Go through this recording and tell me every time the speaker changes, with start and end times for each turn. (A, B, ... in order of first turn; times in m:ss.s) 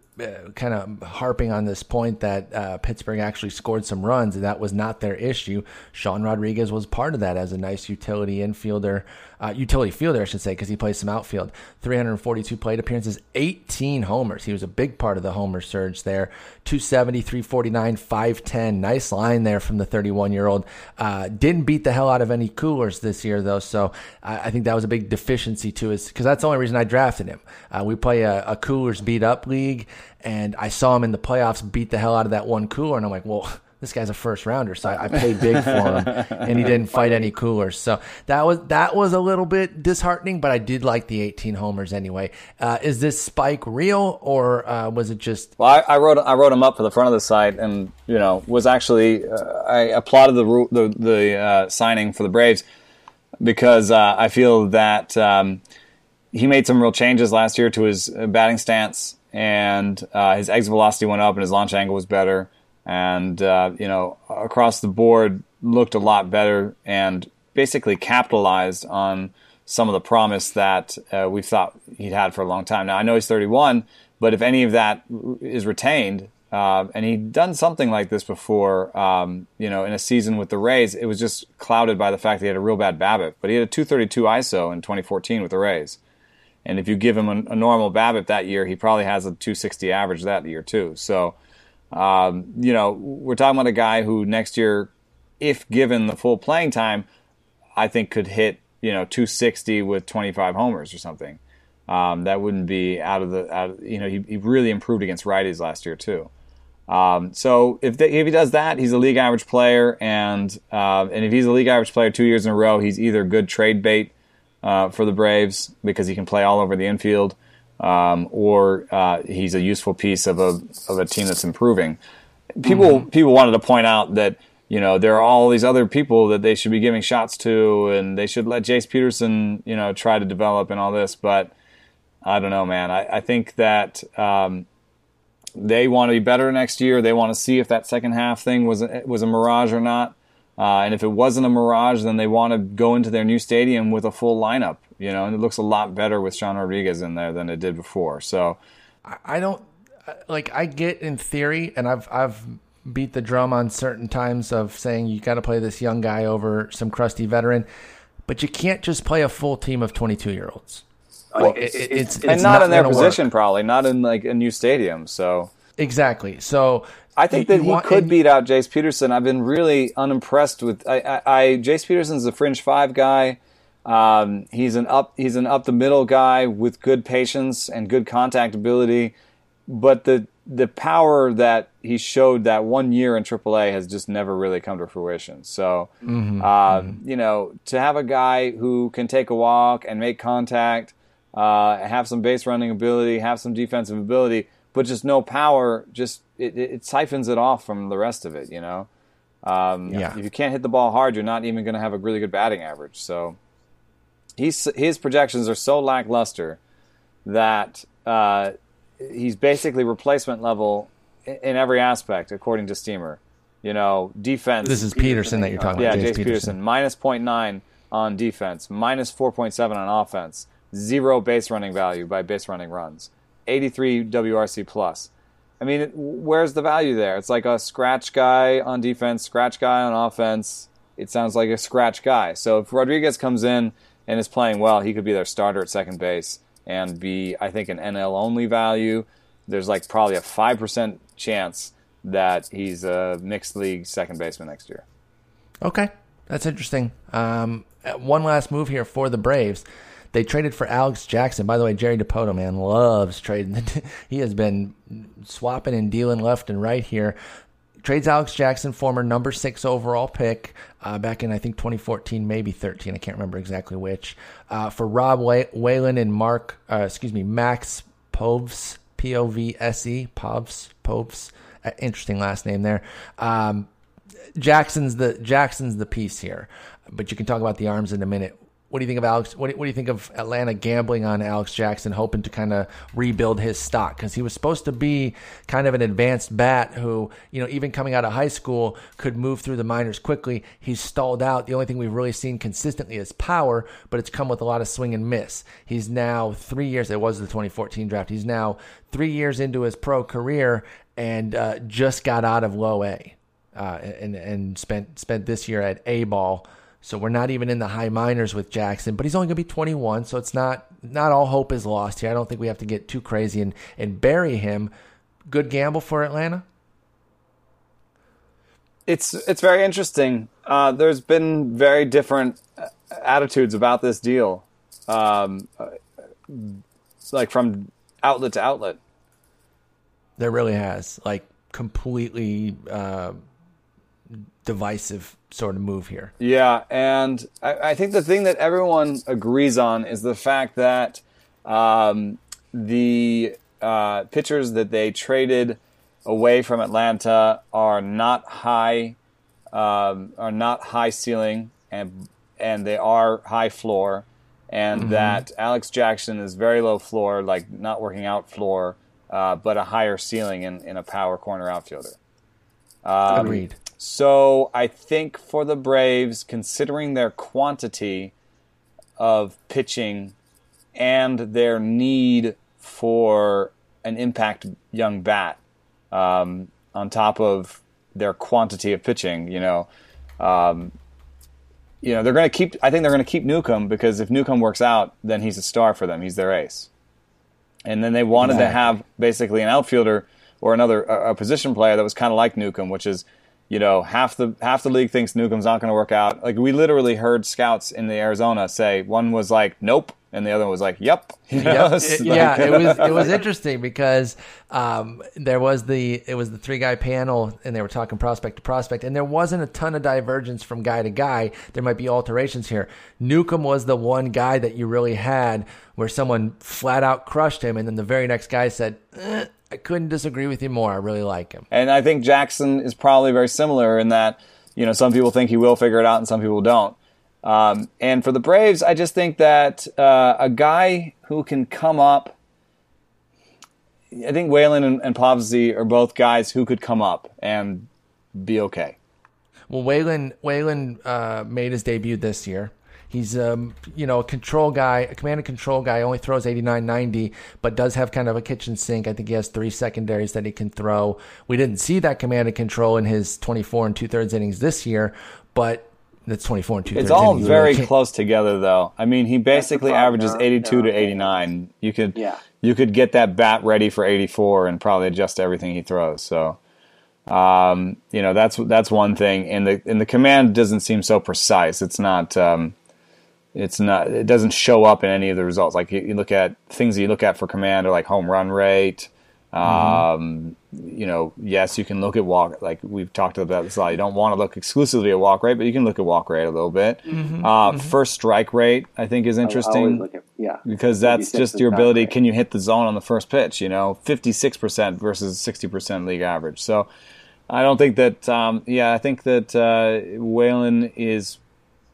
0:00.2-0:45.5 A
0:35.3-0:36.4 B
0:36.4-0:37.3 C
0:45.6-0:52.6 B
0:53.4-0:55.6 B
0:56.3-1:26.0 B
1:26.6-1:31.4 B
1:31.9-1:37.1 B
1:37.8-1:46.3 B
1:46.9-2:02.0 B
2:02.5-2:11.5 B
2:02.7-2:03.0 A
2:12.2-2:14.6 B
2:15.5-2:28.6 B
2:29.0-2:37.7 A
2:38.3-2:40.8 A
2:41.3-2:43.1 C
2:41.4-2:43.2 A
2:42.3-2:45.5 B
2:45.8-2:48.1 A
2:47.2-2:59.1 B
2:59.7-3:18.9 B
3:06.0-3:07.0 A
3:19.4-3:23.4 B
3:19.9-3:20.2 A
3:24.4-3:26.6 B
3:27.2-3:34.9 B
3:34.6-3:36.5 A
3:34.7-3:36.1 C
3:35.8-4:04.8 B
4:05.6-4:17.2 A
4:17.8-4:33.7 A
4:34.4-5:14.7 A
5:15.3-5:16.4 A
5:18.8-5:28.8 B
5:30.2-5:33.2 A
5:34.4-5:36.1 A
5:36.2-5:49.0 B
5:49.5-6:02.0 B
5:54.7-5:55.2 A
6:02.8-6:08.1 B
6:03.1-6:03.6 A
6:03.1-6:03.4 C
6:09.0-6:10.1 B
6:10.7-6:15.4 B
6:15.9-6:19.7 B
6:20.2-6:20.7 B
6:21.8-6:26.7 B
6:27.6-6:43.2 B
6:28.2-6:28.8 A
6:41.4-7:01.5 A
7:01.5-7:12.2 B
7:13.9-7:18.8 B
7:19.5-7:37.7 A
7:36.7-7:46.4 B
7:39.3-7:41.2 C
7:41.9-7:42.2 C
7:47.1-7:52.5 B
7:53.3-8:09.8 B
7:59.4-7:59.8 A
8:06.9-8:07.7 A
8:09.2-8:11.9 C
8:10.4-8:16.7 B
8:17.3-8:21.2 B